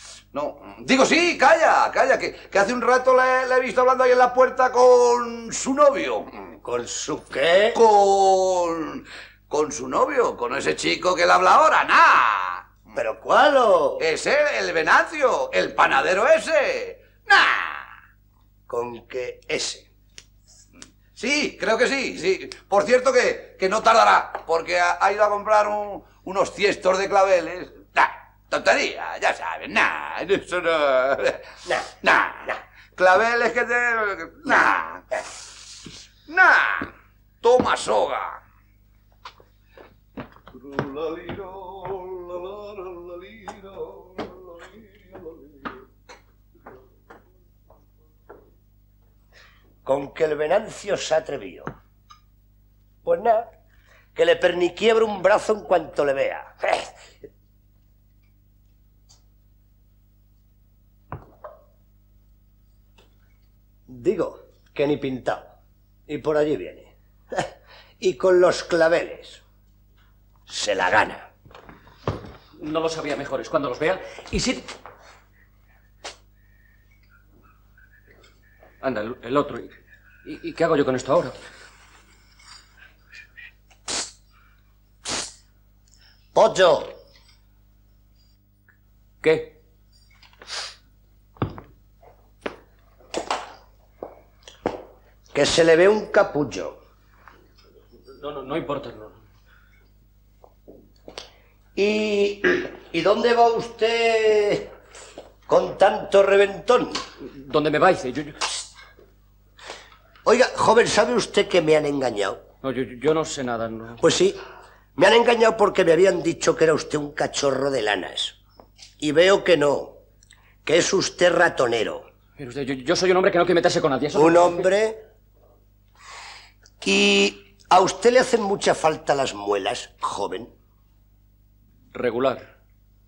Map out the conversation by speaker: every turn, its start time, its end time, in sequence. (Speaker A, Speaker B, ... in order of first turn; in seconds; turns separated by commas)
Speaker A: 0.3-6.3, Speaker B: 6.6-7.8, Speaker A: 7.7-12.7, Speaker B: 12.9-14.0, Speaker A: 14.0-17.9, Speaker B: 18.7-19.9, Speaker A: 21.1-31.4, Speaker A: 32.0-35.1, Speaker A: 36.3-36.9, Speaker A: 37.4-38.4, Speaker B: 49.8-51.7, Speaker B: 53.0-53.5, Speaker B: 54.1-57.0, Speaker B: 63.9-65.5, Speaker B: 66.1-69.4, Speaker B: 70.5-71.3, Speaker C: 72.6-74.7, Speaker C: 78.8-79.7, Speaker C: 80.2-81.3, Speaker B: 86.3-86.9, Speaker C: 89.2-89.5, Speaker B: 95.3-96.8, Speaker C: 98.2-99.2, Speaker B: 101.8-104.7, Speaker B: 105.5-107.0, Speaker C: 107.3-108.4, Speaker B: 110.2-112.4, Speaker C: 112.6-114.0, Speaker B: 114.0-114.4, Speaker B: 115.0-118.3, Speaker B: 119.0-120.0, Speaker B: 120.6-122.1, Speaker C: 122.4-124.7, Speaker B: 124.1-125.0, Speaker B: 126.8-130.5, Speaker C: 131.9-132.5